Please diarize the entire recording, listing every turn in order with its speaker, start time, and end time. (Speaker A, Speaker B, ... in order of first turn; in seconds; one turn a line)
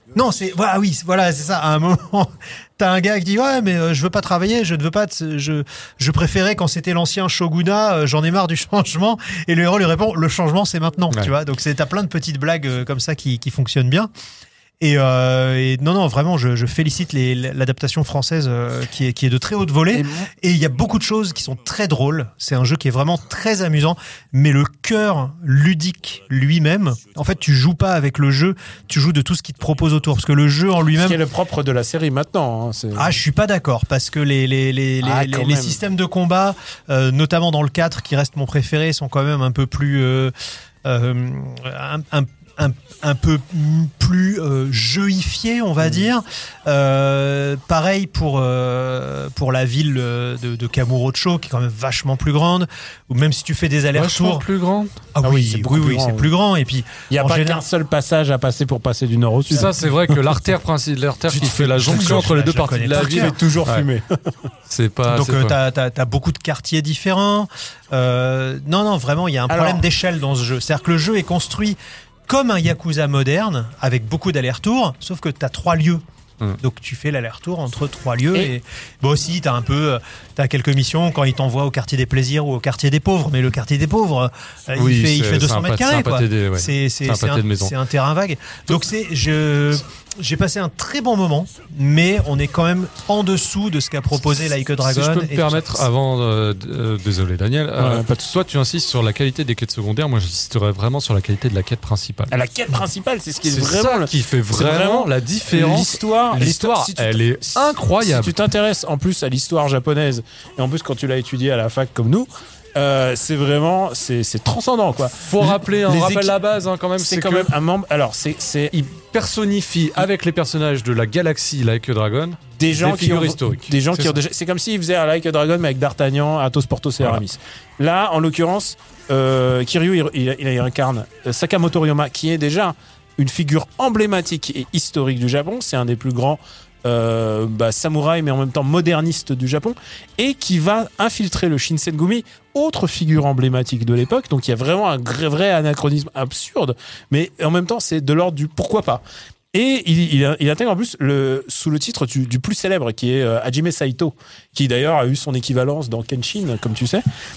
Speaker A: 0.1-14.1
Speaker A: 14.8-31.2
Speaker B: 19.9-20.3
Speaker B: 30.9-33.2
Speaker A: 33.0-40.3
Speaker B: 35.0-35.8
Speaker A: 40.9-54.5
Speaker C: 54.0-55.0
Speaker A: 55.1-57.6
Speaker B: 55.2-56.3
Speaker B: 57.1-60.2
Speaker C: 59.5-63.9
Speaker A: 61.3-63.4
Speaker B: 63.0-64.3
Speaker C: 64.7-65.6
Speaker A: 65.1-76.0
Speaker B: 69.5-69.8
Speaker A: 76.6-95.9
Speaker C: 84.8-87.7
Speaker C: 94.8-102.4
Speaker B: 97.8-98.3
Speaker B: 102.3-116.4
Speaker C: 103.5-108.3
Speaker C: 115.2-117.5
Speaker B: 117.0-118.7
Speaker C: 118.7-124.2
Speaker B: 122.6-157.0